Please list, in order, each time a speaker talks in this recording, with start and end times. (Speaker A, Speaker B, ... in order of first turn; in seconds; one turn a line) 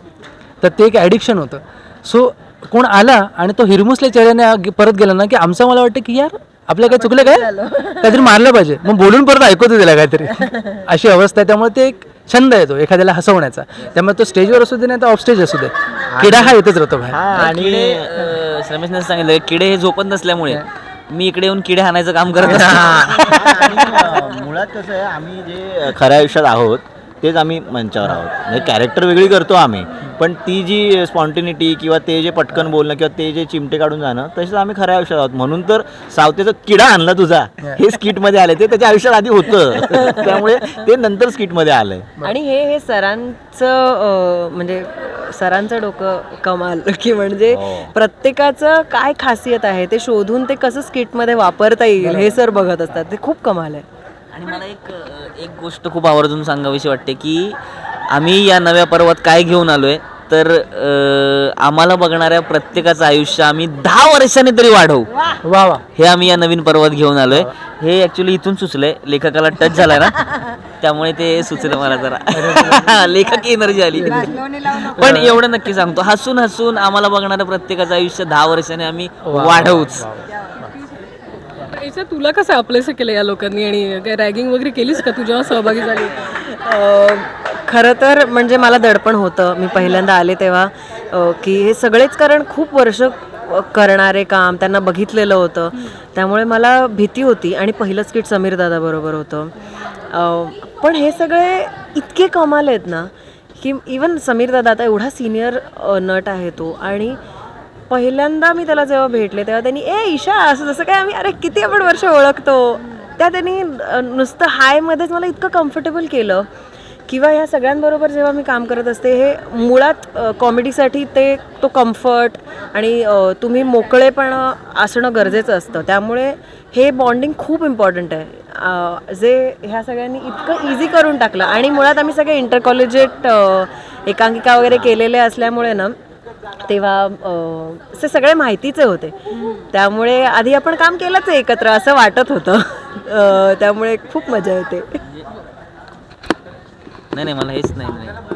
Speaker A: 0.6-7.5
Speaker B: 7.0-8.2
Speaker A: 8.0-17.2
Speaker C: 16.1-16.6
Speaker C: 17.1-18.1
Speaker D: 17.3-24.1
Speaker C: 22.7-42.1
Speaker B: 40.0-40.4
Speaker B: 42.2-53.8
Speaker C: 47.5-47.9
Speaker A: 52.0-52.4
Speaker D: 54.3-57.6
Speaker D: 58.1-65.1
Speaker A: 65.4-65.8
Speaker D: 65.9-80.1
Speaker A: 72.3-72.8
Speaker A: 74.0-74.5
Speaker A: 75.0-75.3
Speaker A: 79.2-80.7
Speaker E: 81.7-86.2
Speaker B: 86.2-107.2
Speaker B: 107.9-116.5
Speaker B: 117.1-135.9
Speaker B: 136.7-145.0
Speaker D: 147.1-148.2